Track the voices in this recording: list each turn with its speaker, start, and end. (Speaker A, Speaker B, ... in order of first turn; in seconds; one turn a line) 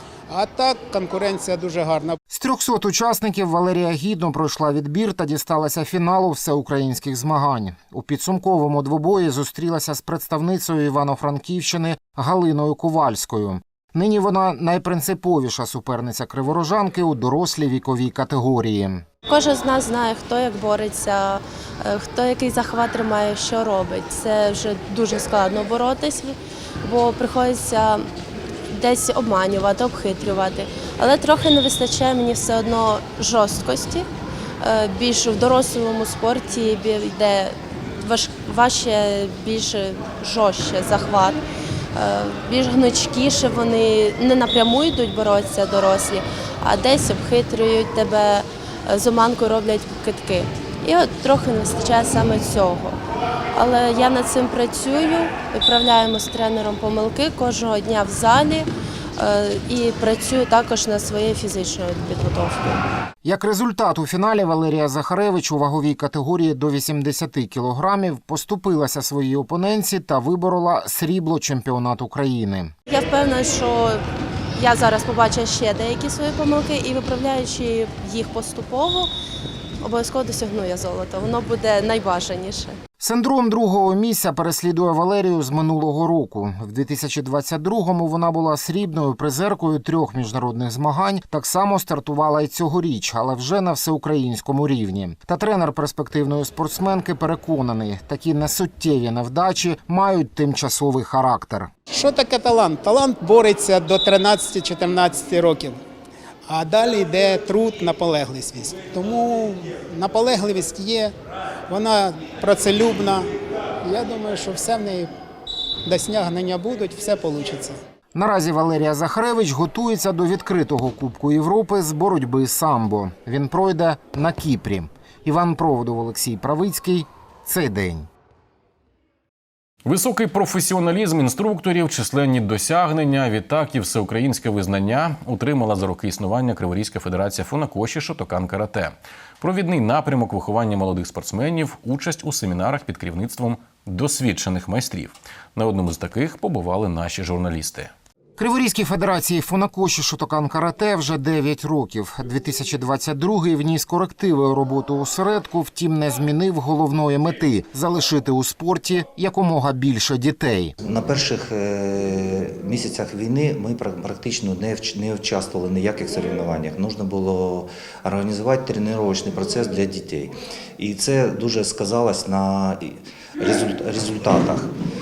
Speaker A: 0.3-2.1
Speaker B: 2.3-19.0
Speaker C: 19.3-28.1
Speaker C: 28.7-34.0
Speaker C: 34.6-41.4
Speaker C: 41.9-53.0
Speaker C: 53.5-62.8
Speaker B: 63.2-72.7
Speaker C: 72.9-74.0
Speaker C: 74.5-79.1
Speaker C: 79.8-82.8
Speaker B: 83.0-101.7
Speaker A: 101.9-105.8
Speaker A: 106.5-111.1
Speaker A: 111.7-113.2
Speaker A: 113.8-115.1
Speaker A: 115.8-117.8
Speaker B: 118.1-128.1
Speaker D: 129.8-147.9
Speaker B: 148.4-160.7
Speaker E: 160.8-174.7